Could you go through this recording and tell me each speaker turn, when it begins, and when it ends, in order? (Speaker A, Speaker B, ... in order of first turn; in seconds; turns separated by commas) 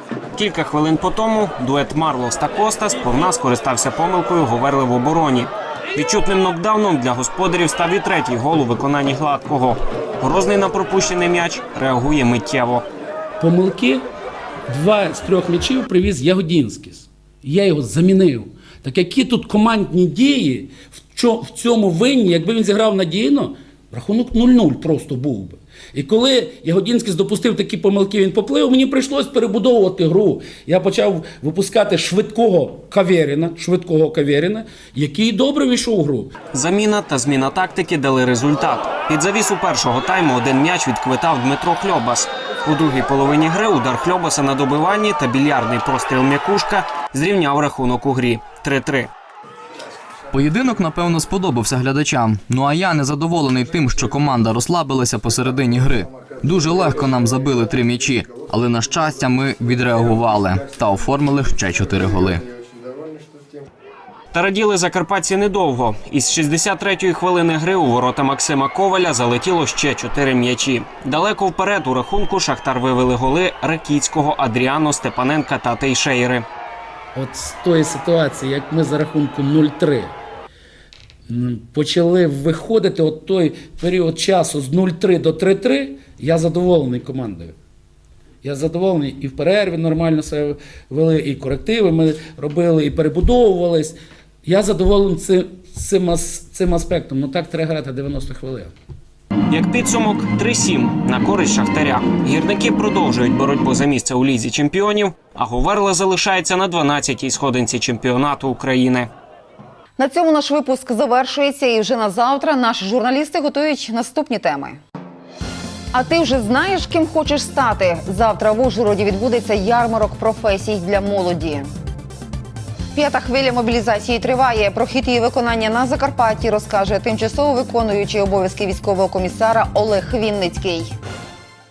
Speaker A: 0.3-12.8, Speaker B: 13.4-14.1, Speaker B: 14.7-36.3, Speaker A: 36.5-49.1, Speaker C: 50.3-62.4, Speaker A: 64.3-76.4, Speaker B: 77.1-80.1, Speaker B: 81.3-87.5, Speaker B: 88.4-98.7, Speaker A: 99.5-109.1, Speaker D: 110.0-114.8, Speaker D: 115.9-121.7, Speaker D: 122.9-130.9